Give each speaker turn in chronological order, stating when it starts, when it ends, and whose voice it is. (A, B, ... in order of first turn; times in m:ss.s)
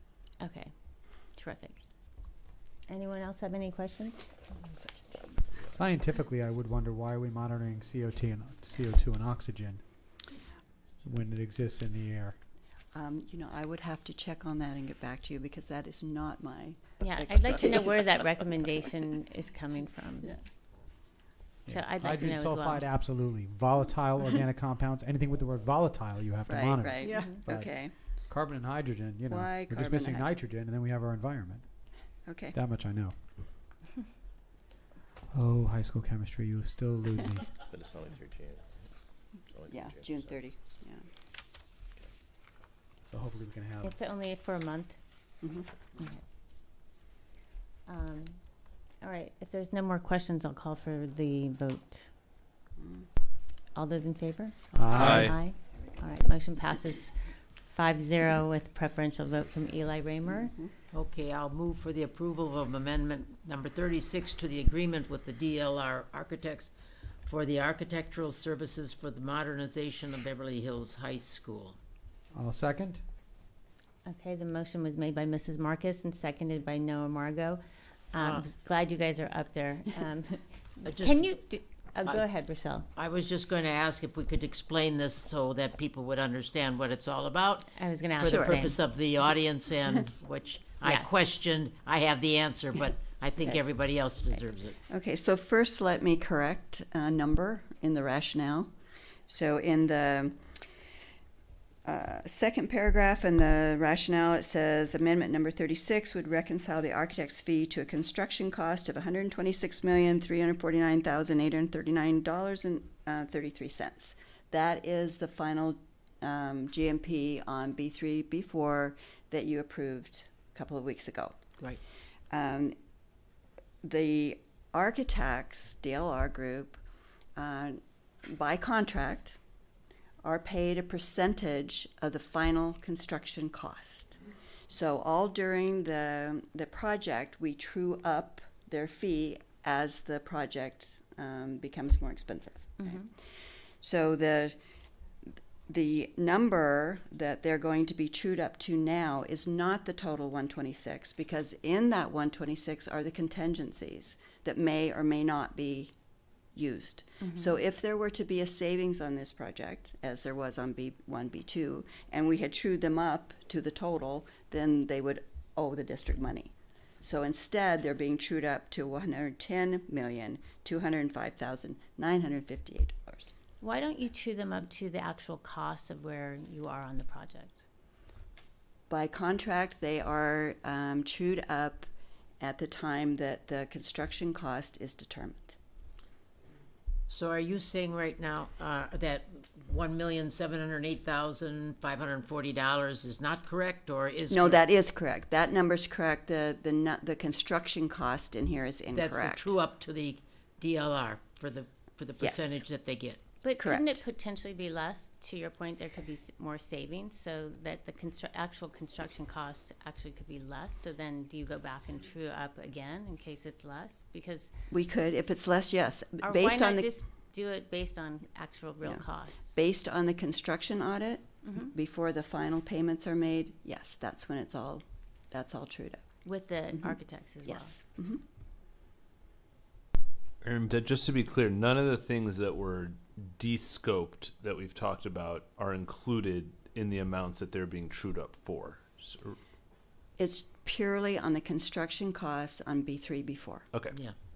0:00.4-0:00.7 A
0:01.4-0:01.8 A
0:02.9-0:04.2 A
0:04.6-0:05.2 B
0:05.7-0:09.8 C
0:11.0-0:12.3 C
0:12.9-0:18.3 B
0:17.0-0:20.4 A
0:21.6-0:27.7 C
0:21.7-0:22.8 A
0:26.5-0:27.9 B
0:28.3-0:31.6 C
0:29.3-0:30.3 B
0:32.3-0:32.6 B
0:32.5-0:33.1 C
0:35.3-0:37.5 C
0:37.7-0:40.4 D
0:39.7-0:41.0 B
0:43.0-0:43.9 C
0:43.8-0:45.0 A
0:45.4-0:45.7 B
0:47.9-0:48.4 A
0:49.0-0:52.1 A
0:52.8-0:53.1 B
0:53.7-0:57.1 A
0:54.7-0:55.3 C
0:54.9-0:55.3 E
0:57.7-1:00.6 A
1:00.9-1:06.7 F
1:07.2-1:11.8 F
1:12.3-1:13.0 C
1:14.0-1:17.6 A
1:18.1-1:22.9 A
1:18.2-1:18.5 F
1:20.8-1:21.3 F
1:22.9-1:34.8 F
1:27.7-1:28.8 A
1:28.2-1:28.5 B
1:30.8-1:31.2 A
1:34.9-1:38.7 B
1:39.3-1:40.5 B
1:41.8-2:01.4 B
2:02.3-2:02.8 B
2:03.8-2:06.8 B
2:07.4-2:09.4 B
2:10.2-2:14.2 B
2:14.7-2:23.1 B
2:23.8-2:24.6 B
2:25.7-2:35.9 B
2:36.5-2:53.3 B
2:37.2-2:37.5 A
2:53.6-2:57.6 A
2:58.9-3:05.6 B
3:07.1-3:14.6 F
3:14.3-3:19.6 B
3:18.9-3:23.2 F
3:22.2-3:22.6 B
3:23.4-3:34.5 A
3:23.6-3:24.0 B
3:34.7-3:36.9 B
3:36.2-3:39.6 A
3:38.8-3:46.0 B
3:41.4-3:41.7 A
3:46.2-3:47.7 A
3:46.7-3:48.2 B
3:50.4-3:59.4 E
4:00.2-4:03.6 B
4:03.7-4:04.0 E